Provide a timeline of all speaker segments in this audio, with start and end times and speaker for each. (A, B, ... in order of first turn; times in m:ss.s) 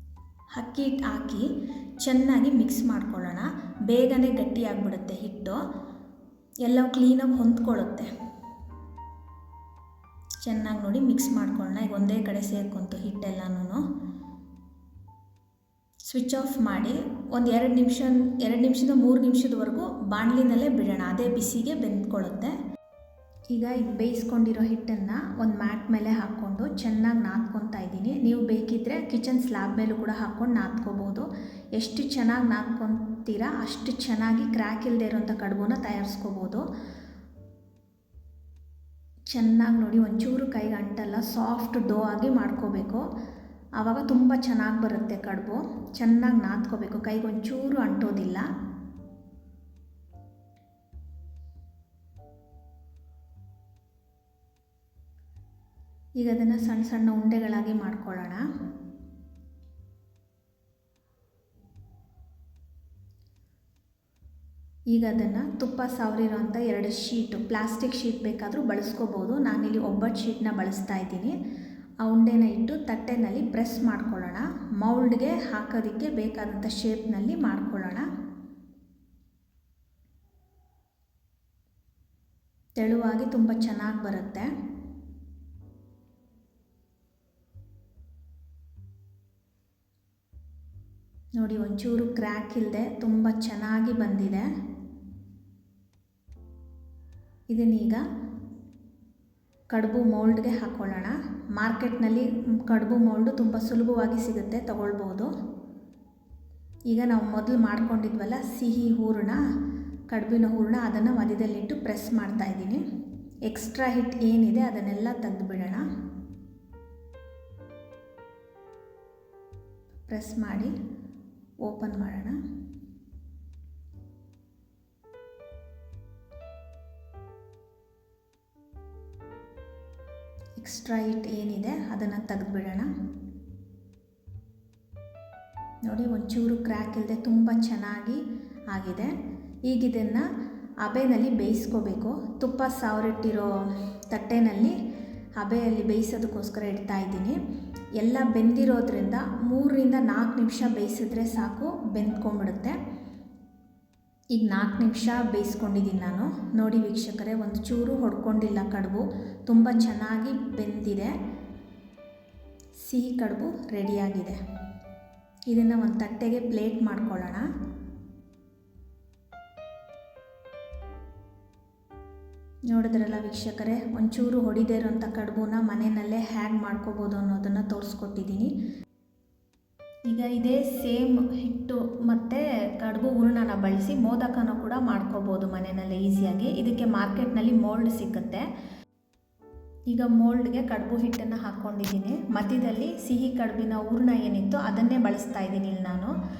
0:00.6-0:01.5 A
0:02.0-0:05.6 A
0:06.6-0:08.1 A
0:10.4-0:13.8 A
0:16.0-0:22.5 A
0:23.5-0:36.7 A
0:39.3-0:43.0 A
0:43.8-0:48.5 A
0:56.2-0:58.4 A
1:04.9-1:11.4 A
1:12.0-1:18.1 A
1:22.8-1:24.5 A
1:31.4-1:34.5 A
1:37.5-1:38.0 A
1:39.7-1:45.3 A
1:46.9-1:49.4 A
1:50.1-1:52.8 A
1:53.5-1:55.9 A
2:00.1-2:00.8 A
2:01.6-2:02.4 A
2:10.6-2:12.9 A
2:15.8-2:19.1 A
2:19.7-2:20.2 A
2:20.8-2:23.5 A
2:24.1-2:24.8 A
2:25.4-2:27.4 A
2:28.0-2:32.8 A
2:34.4-2:41.1 A
2:42.8-2:44.4 A
2:45.5-2:47.5 A
2:52.7-2:58.5 A
3:00.1-3:08.4 A
3:09.9-3:16.1 A